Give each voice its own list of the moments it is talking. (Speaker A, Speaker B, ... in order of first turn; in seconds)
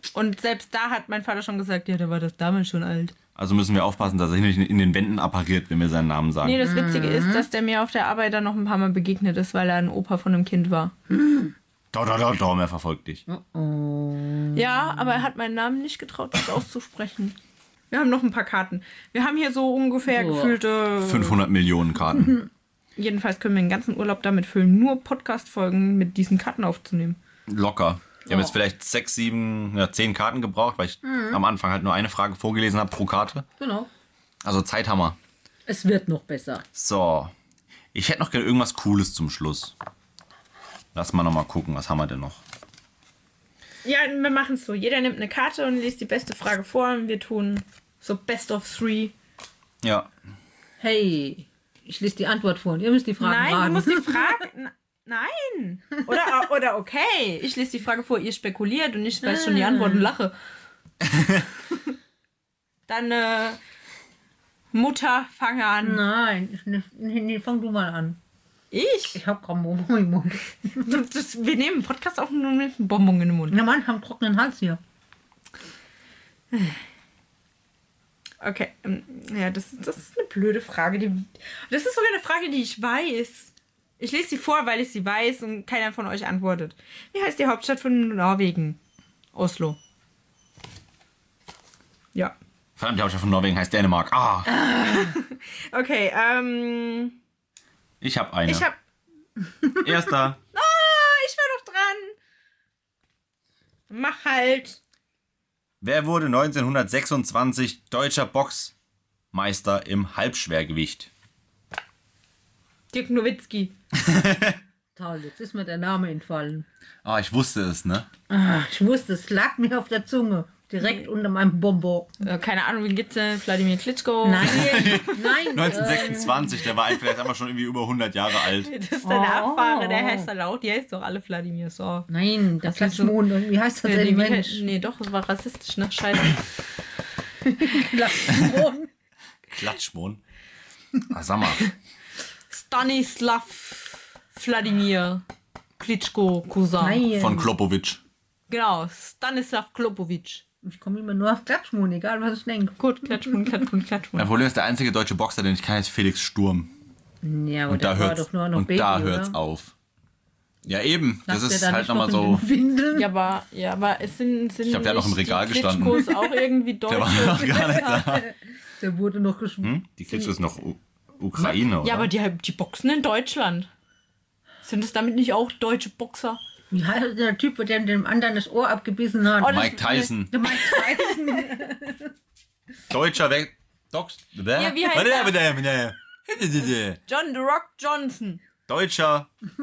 Speaker A: 0.1-3.1, 6.4-10.9, 14.5-17.4, 17.9-21.4, 23.0-27.2, 43.8-49.1, 53.2-60.3, 62.9-63.6, 64.7-66.0, 68.7-69.2, 70.8-73.6, 76.5-76.8, 78.4-88.8, 89.3-89.8, 94.5-97.2, 98.5-98.8, 100.5-102.2, 103.9-104.8, 112.9-113.7, 122.2-126.5, 128.4-132.1, 132.6-133.2, 133.8-136.4, 142.5-145.2, 145.8-147.1, 148.5-150.4, 152.8-154.3, 162.9-167.9, 171.8-173.7, 174.6-176.4, 179.4-181.1, 184.6-185.4, 187.1-188.4
Speaker B: 3.4-6.6, 11.9-13.2, 21.0-22.4, 27.5-33.5, 34.4-35.2, 36.8-37.3, 37.9-39.7, 41.0-42.4, 49.8-50.1, 61.0-61.4, 92.8-94.5, 98.0-98.7, 99.8-100.4, 105.8-108.7, 109.3-111.1, 114.0-114.6, 117.0-118.1, 124.4-128.7, 139.5-140.2, 141.1-141.7, 147.1-148.0, 154.2-156.7, 157.7-159.7, 160.7-162.4, 164.7-166.1, 166.9-168.3, 169.6-172.1, 179.4-180.3, 182.9-187.0, 188.7-189.3
Speaker C: 6.6-7.5, 11.1-11.5, 13.3-15.3, 20.1-20.6, 22.1-22.5, 28.3-28.6, 31.0-31.4, 33.6-33.9, 35.7-36.6, 50.8-54.4, 59.2-60.1, 65.8-68.2, 69.2-71.0, 73.5-74.8, 115.0-116.7, 118.3-122.2, 124.2-126.7, 129.0-130.3, 132.1-134.7, 137.4-138.9, 146.8-147.5, 150.6-153.4, 157.2-159.4, 161.3-163.1, 167.4-169.7, 176.7-182.1